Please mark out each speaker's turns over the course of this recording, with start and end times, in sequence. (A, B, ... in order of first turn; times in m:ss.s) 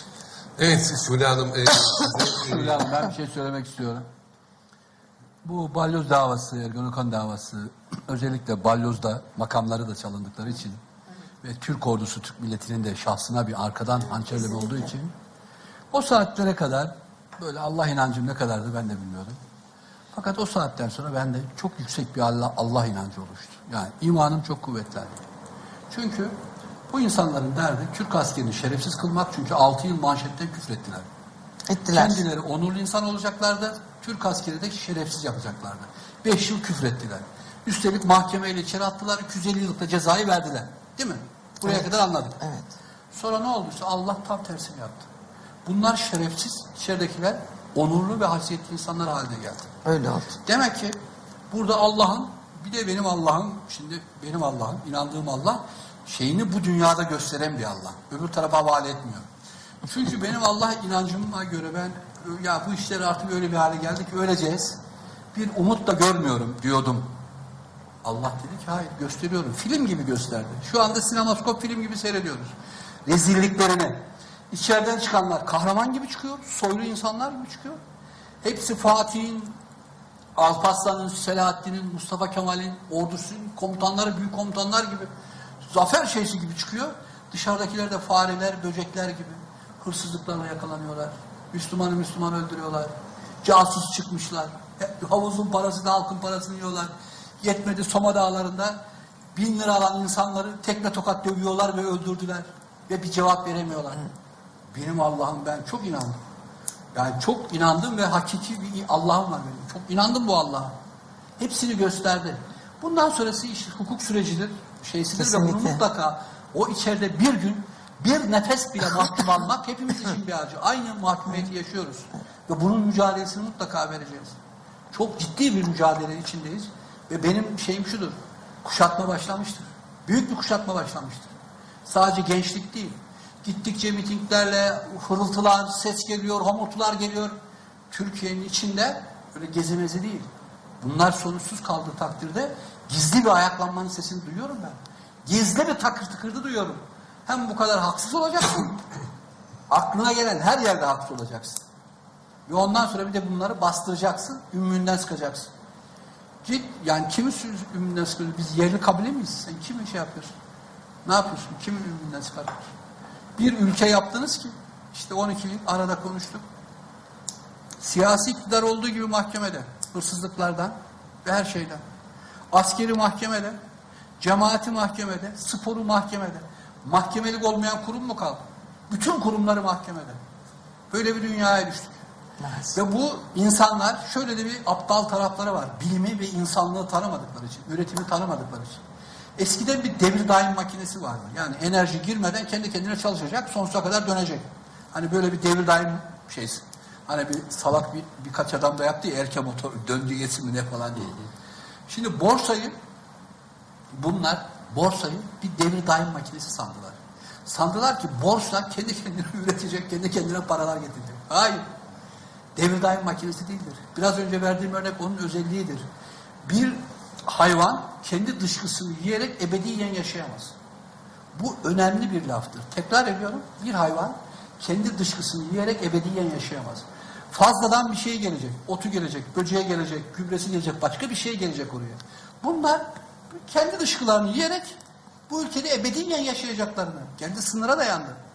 0:00.6-0:02.9 A
0:02.3-0:04.1 B
0:05.4-0:10.8 B
0:11.4-0:15.1 B
0:15.9-0:19.4 B
0:20.1-0:25.2 B
0:25.9-0:26.3 B
0:26.9-0:31.1 B
0:31.7-0:32.2 C
0:31.9-0:42.4 B
0:42.4-0:42.7 C
0:43.1-0:45.1 B
0:45.6-0:49.7 B
0:49.8-0:50.4 C
0:50.4-0:51.0 B
0:51.5-0:59.3 B
0:59.8-1:04.8 B
1:05.3-1:07.1 B
1:08.0-1:12.5 B
1:13.1-1:17.8 B
1:18.4-1:19.6 B
1:20.4-1:25.1 B
1:25.7-1:32.9 B
1:33.4-1:38.8 B
1:39.3-1:44.1 B
1:44.7-1:46.2 B
1:46.9-1:50.7 B
1:51.4-2:04.4 B
1:55.2-1:55.8 C
2:04.9-2:11.3 B
2:11.9-2:17.4 B
2:17.9-2:20.3 B
2:20.8-2:28.8 B
2:29.7-2:31.6 B
2:32.5-2:35.5 B
2:36.4-2:40.3 B
2:41.0-2:42.7 B
2:43.4-2:46.4 B
2:47.8-2:51.8 B
2:52.5-2:53.6 B
2:54.2-3:00.2 B
3:00.9-3:02.0 B
3:02.4-3:02.8 C
3:02.7-3:08.8 B
3:09.4-3:21.2 B
3:21.9-3:22.7 B
3:23.9-3:31.6 B
3:32.6-3:35.8 B
3:36.5-3:40.5 B
3:41.4-3:54.8 B
3:55.3-3:58.2 B